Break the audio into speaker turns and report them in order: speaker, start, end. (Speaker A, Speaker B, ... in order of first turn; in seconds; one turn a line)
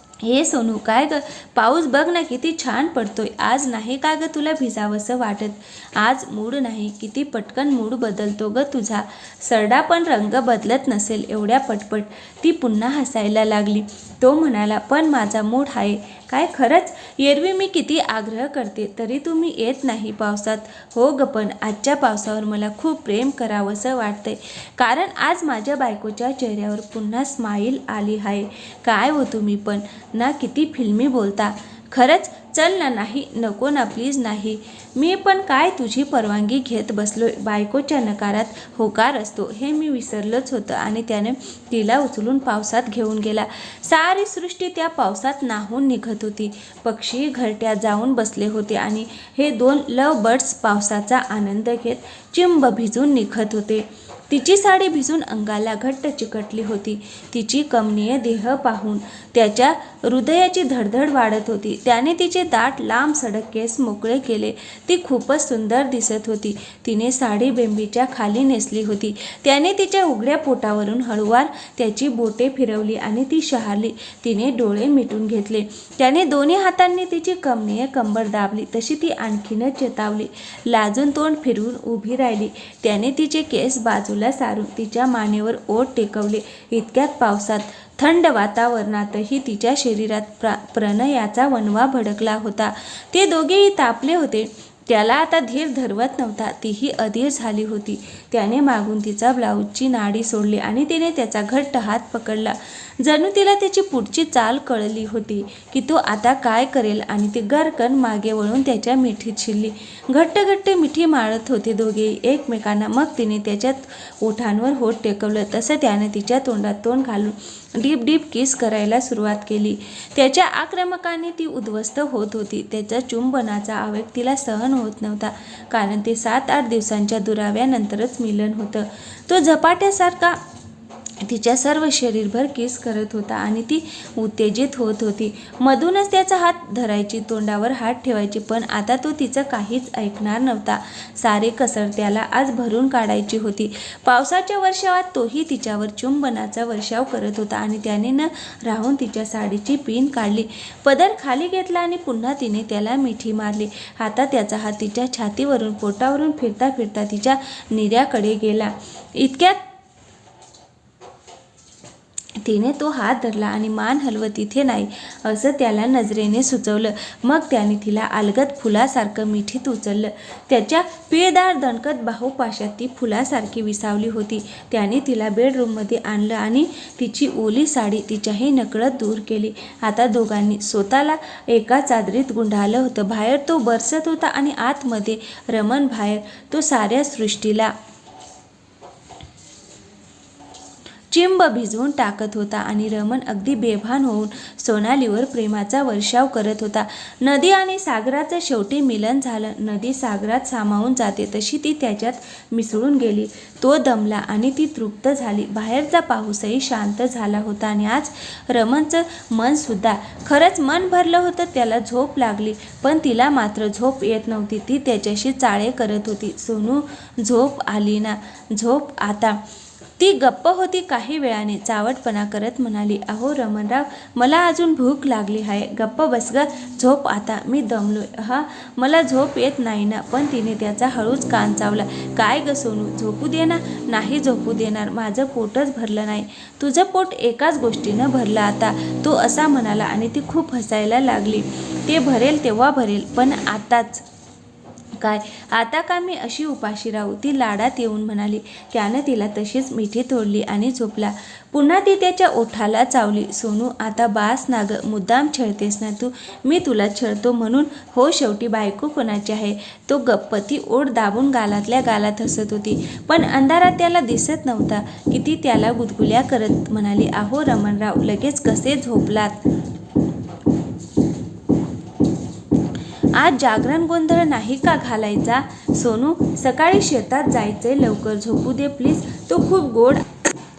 Speaker A: 0.2-130.4
Speaker A: 131.2-159.6
Speaker A: 162.4-187.7
Speaker A: 191.1-219.4
Speaker A: 220.0-244.1
Speaker A: 245.0-269.4
Speaker A: 273.2-280.1